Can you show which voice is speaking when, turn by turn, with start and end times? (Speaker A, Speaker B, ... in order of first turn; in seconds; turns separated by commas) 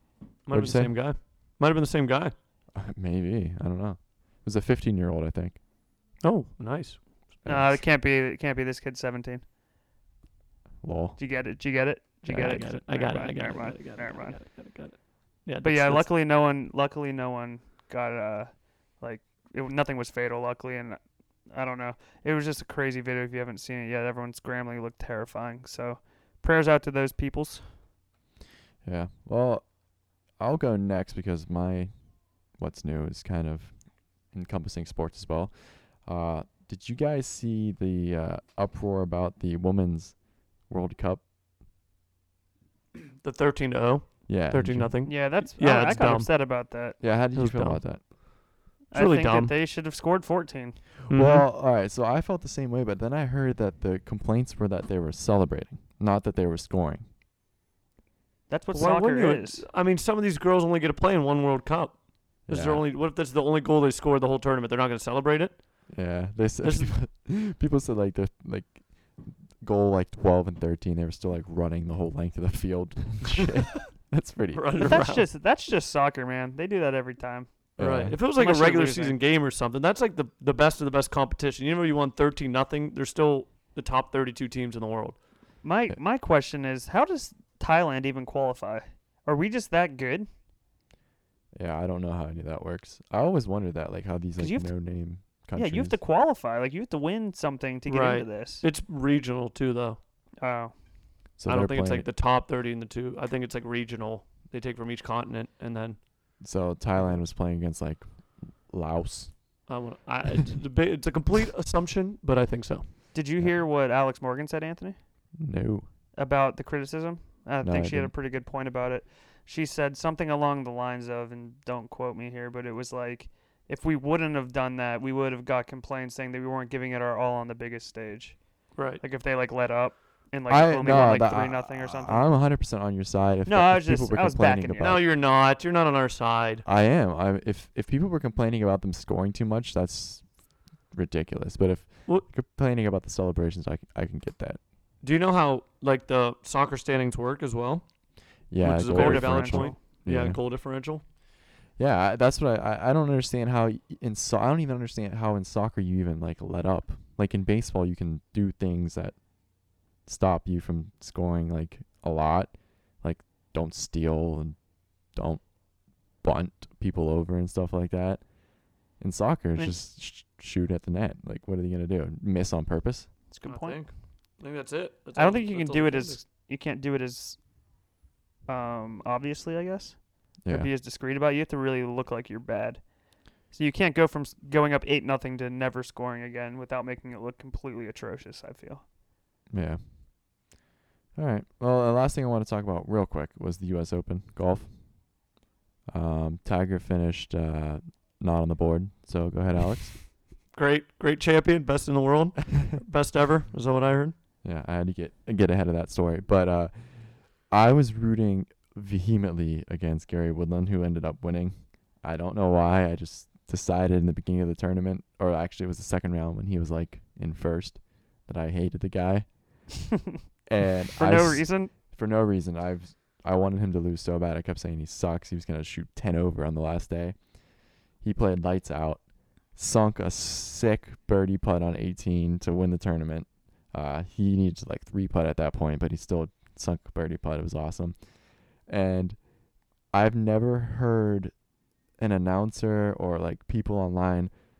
Speaker A: 0.5-2.3, Speaker B: 0.5-1.1, Speaker B: 2.7-5.6, Speaker A: 6.2-7.2, Speaker B: 7.4-7.8, Speaker C: 7.4-9.4, Speaker B: 10.8-11.2, Speaker C: 11.2-14.4, Speaker B: 12.2-12.6, Speaker A: 12.3-16.1, Speaker C: 15.6-27.7, Speaker B: 28.8-29.7, Speaker B: 30.4-31.9, Speaker B: 32.5-41.2, Speaker A: 43.2-46.3, Speaker B: 44.3-44.9, Speaker C: 45.0-47.0, Speaker B: 47.0-48.0, Speaker A: 47.3-47.8, Speaker C: 48.9-50.8, Speaker A: 48.9-49.5, Speaker B: 51.0-57.0, Speaker A: 51.1-51.5, Speaker C: 58.5-59.6, Speaker A: 58.7-65.8, Speaker B: 62.5-62.9, Speaker B: 65.9-75.0, Speaker A: 66.6-66.9, Speaker A: 74.5-75.3, Speaker C: 74.8-77.5, Speaker B: 77.8-78.2, Speaker A: 77.8-85.2, Speaker C: 78.2-79.2, Speaker C: 85.6-90.3, Speaker B: 91.5-96.0, Speaker C: 94.4-98.6, Speaker A: 97.8-100.0, Speaker C: 100.4-100.7, Speaker B: 101.4-102.1, Speaker A: 101.5-106.0, Speaker B: 106.4-109.7, Speaker A: 109.7-112.9, Speaker C: 113.1-115.0, Speaker B: 115.4-115.8, Speaker C: 116.2-128.4, Speaker B: 117.6-118.1, Speaker A: 128.8-129.0, Speaker C: 128.9-132.3, Speaker B: 130.5-135.0, Speaker C: 133.4-135.0, Speaker A: 134.8-136.6, Speaker B: 136.6-140.3, Speaker B: 140.8-144.6, Speaker A: 145.0-147.8, Speaker B: 148.5-150.4, Speaker A: 148.6-151.0, Speaker C: 148.9-149.8, Speaker B: 151.8-159.2, Speaker B: 160.0-164.6, Speaker B: 165.1-165.4, Speaker B: 166.2-168.2, Speaker B: 168.9-173.1, Speaker C: 173.3-173.9, Speaker A: 173.4-176.2, Speaker C: 175.1-177.4, Speaker C: 178.5-182.9, Speaker B: 180.4-180.7, Speaker C: 183.5-188.8, Speaker B: 189.5-189.8, Speaker B: 191.1-194.8, Speaker B: 195.9-200.0, Speaker A: 200.5-204.1, Speaker B: 204.4-219.7, Speaker B: 220.5-227.2, Speaker C: 220.9-221.7, Speaker B: 228.0-238.0, Speaker B: 238.6-239.2, Speaker B: 239.9-241.3, Speaker B: 242.0-244.3